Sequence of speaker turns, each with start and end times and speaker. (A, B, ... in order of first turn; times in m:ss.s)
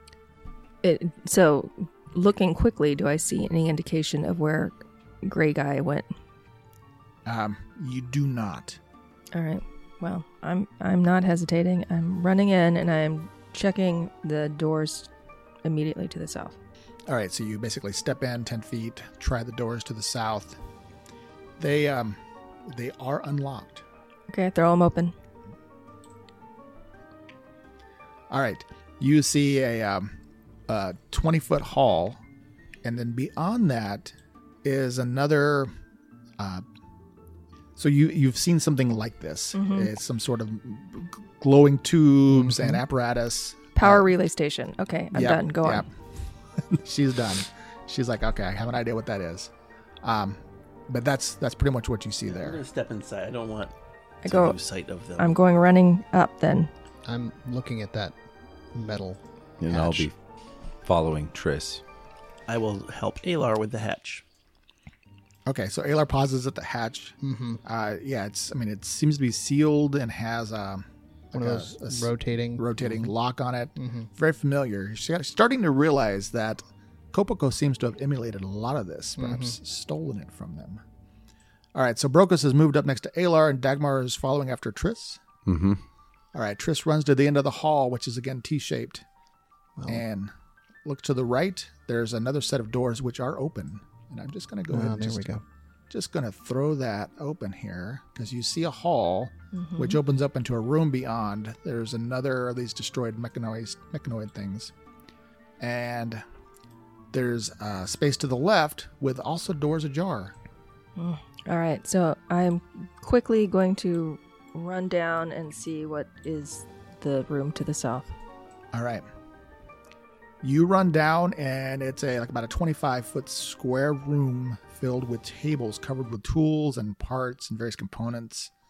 0:00.8-0:06.1 A
0:07.3-0:08.8 B
0:09.3-0:15.1 A
0:15.6-0:16.6 A
0:17.1-0:20.6 B
0:21.6-0:23.8 B
0:24.3-0:25.1 A
0:28.3-0:30.1 B
0:30.7-0:32.2 B
0:32.8-0:35.7 B
0:36.4-0:36.6 B
0:37.8-0:44.1 B
0:39.5-0:39.9 A
0:42.3-0:42.8 C
0:43.8-0:45.9 A
0:45.1-0:45.9 B
0:46.7-0:49.5 B
0:50.0-0:52.6 B
0:52.3-0:53.7 D
0:54.2-0:54.6 A
0:54.2-0:55.3 D
0:55.2-0:56.7 A
0:57.0-0:58.2 C
0:58.7-1:00.1 C
0:59.6-1:00.2 E
1:00.8-1:01.8 E
1:02.5-1:04.2 D
1:05.5-1:20.8 B
1:07.2-1:07.6 C
1:11.3-1:13.1 C
1:13.8-1:14.1 C
1:19.2-1:19.6 C
1:21.8-1:25.2 B
1:25.5-1:25.8 E
1:26.3-1:29.0 B
1:29.8-1:30.0 C
1:29.9-1:30.3 B
1:30.8-1:44.7 B
1:34.7-1:35.4 C
1:39.6-1:40.0 A
1:45.6-1:46.2 B
1:47.1-1:50.4 B
1:51.0-1:58.1 A
1:58.7-1:59.1 B
2:00.4-2:08.5 B